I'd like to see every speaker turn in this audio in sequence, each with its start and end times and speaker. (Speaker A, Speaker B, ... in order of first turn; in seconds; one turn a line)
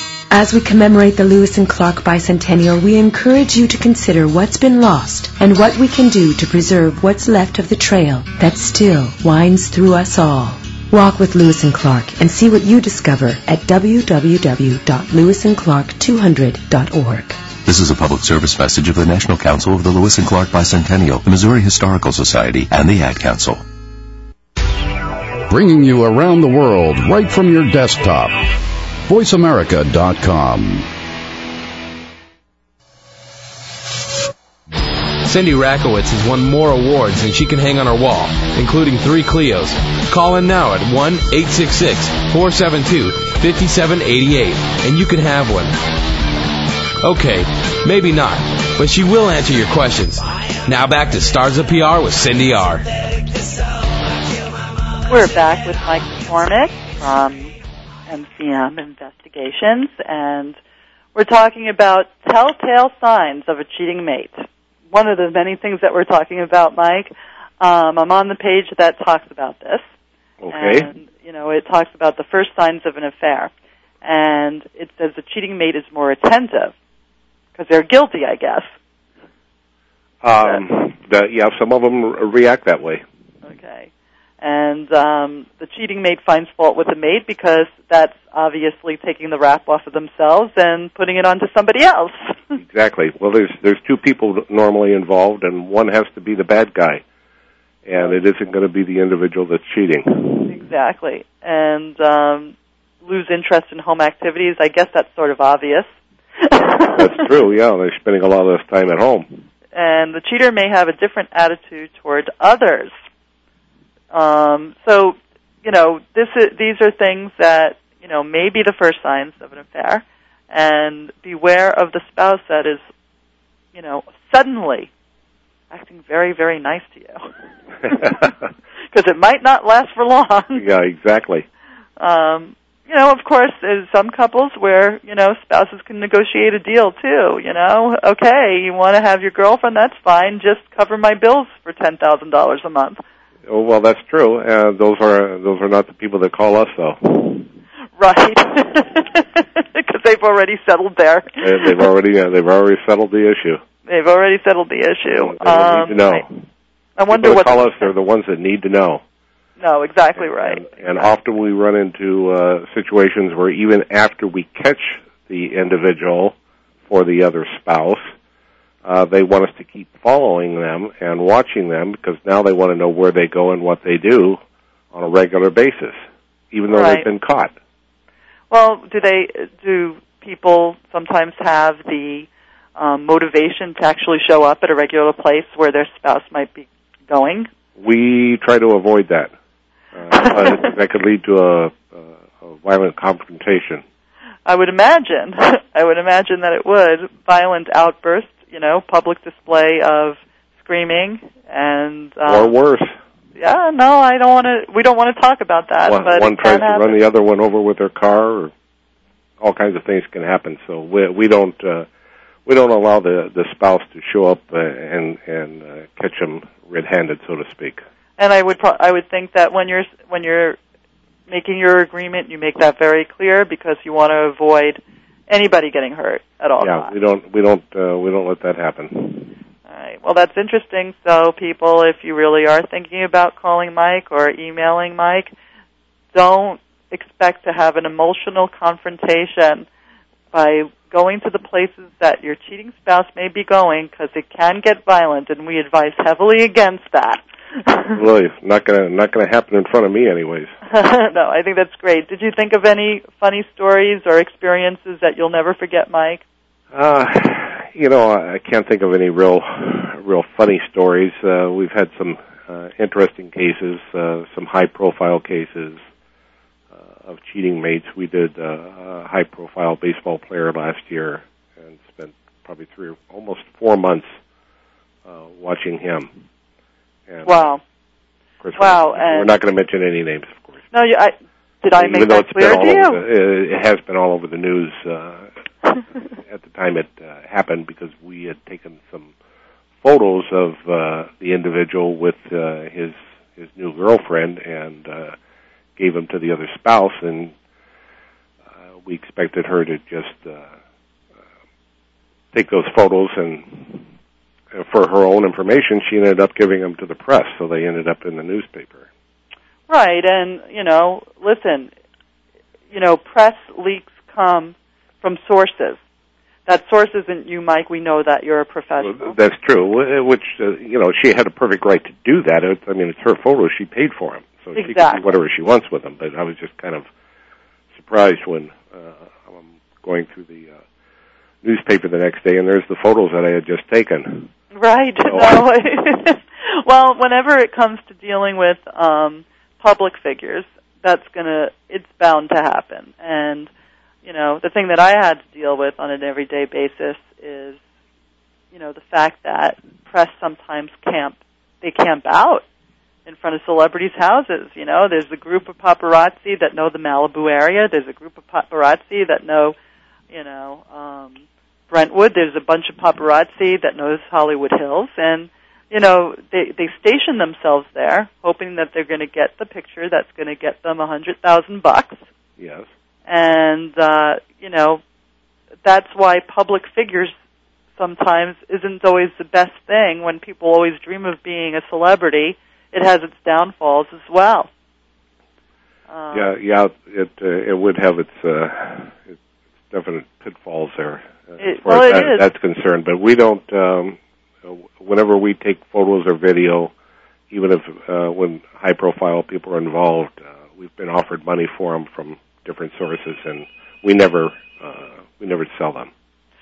Speaker A: 0.3-17.4
Speaker B: 17.6-23.6
Speaker C: 25.5-28.5
Speaker C: 29.1-30.9
Speaker D: 35.2-45.8
Speaker D: 47.0-52.9
Speaker E: 55.1-57.5
Speaker E: 58.1-60.6
Speaker E: 61.1-69.8
Speaker F: 70.4-70.9
Speaker E: 70.5-73.5
Speaker E: 74.0-76.7
Speaker E: 77.5-78.7
Speaker F: 80.2-83.0
Speaker E: 83.5-83.9
Speaker E: 84.4-92.5
Speaker F: 92.6-97.0
Speaker F: 97.8-100.5
Speaker E: 100.5-107.3
Speaker F: 106.9-109.4
Speaker E: 109.7-112.9
Speaker E: 114.1-122.8
Speaker E: 123.7-124.9
Speaker E: 125.7-127.2
Speaker F: 127.9-128.3
Speaker E: 128.9-130.7
Speaker F: 130.6-131.5
Speaker E: 132.0-143.0
Speaker F: 143.5-147.4
Speaker E: 148.0-151.8
Speaker F: 151.4-153.6
Speaker E: 153.9-156.2
Speaker F: 155.1-156.4
Speaker E: 157.0-157.9
Speaker F: 157.1-159.0
Speaker E: 159.6-160.8
Speaker F: 160.2-166.3
Speaker F: 166.9-168.1
Speaker F: 168.8-174.4
Speaker F: 174.9-177.5
Speaker E: 176.7-177.1
Speaker E: 178.5-187.5
Speaker F: 187.8-189.3
Speaker F: 189.9-193.8
Speaker E: 190.1-190.7
Speaker E: 194.5-202.5
Speaker F: 202.3-203.0
Speaker E: 203.4-207.0
Speaker F: 205.9-208.5
Speaker F: 209.4-211.9
Speaker F: 212.5-217.8
Speaker E: 218.2-220.6
Speaker E: 221.3-226.9
Speaker F: 226.6-229.3
Speaker E: 229.7-235.3
Speaker E: 236.1-239.7
Speaker E: 240.3-248.0
Speaker F: 247.9-250.5
Speaker E: 250.7-256.2
Speaker F: 256.7-265.8
Speaker F: 266.7-274.2
Speaker F: 275.1-276.1
Speaker F: 277.1-277.5
Speaker E: 277.2-277.6
Speaker F: 278.4-280.6
Speaker E: 278.6-279.3
Speaker E: 280.7-283.0
Speaker F: 281.8-285.3
Speaker F: 286.2-289.1
Speaker F: 289.8-295.2
Speaker F: 295.8-297.3
Speaker F: 298.8-300.5
Speaker F: 302.3-303.9
Speaker F: 304.5-308.9
Speaker E: 309.7-311.7
Speaker E: 312.7-315.8
Speaker E: 316.5-319.2
Speaker F: 318.8-326.9
Speaker E: 324.6-325.0
Speaker F: 327.8-330.6
Speaker F: 331.4-334.3
Speaker E: 334.5-343.5
Speaker F: 335.1-335.4
Speaker E: 344.0-347.6
Speaker E: 348.5-352.4
Speaker E: 353.1-359.6
Speaker E: 360.1-372.0
Speaker F: 372.4-372.7
Speaker E: 373.1-374.8
Speaker E: 375.6-377.1
Speaker E: 377.8-384.5
Speaker E: 385.9-386.3
Speaker F: 386.1-389.2
Speaker F: 389.7-396.7
Speaker E: 391.4-392.3
Speaker F: 397.3-405.9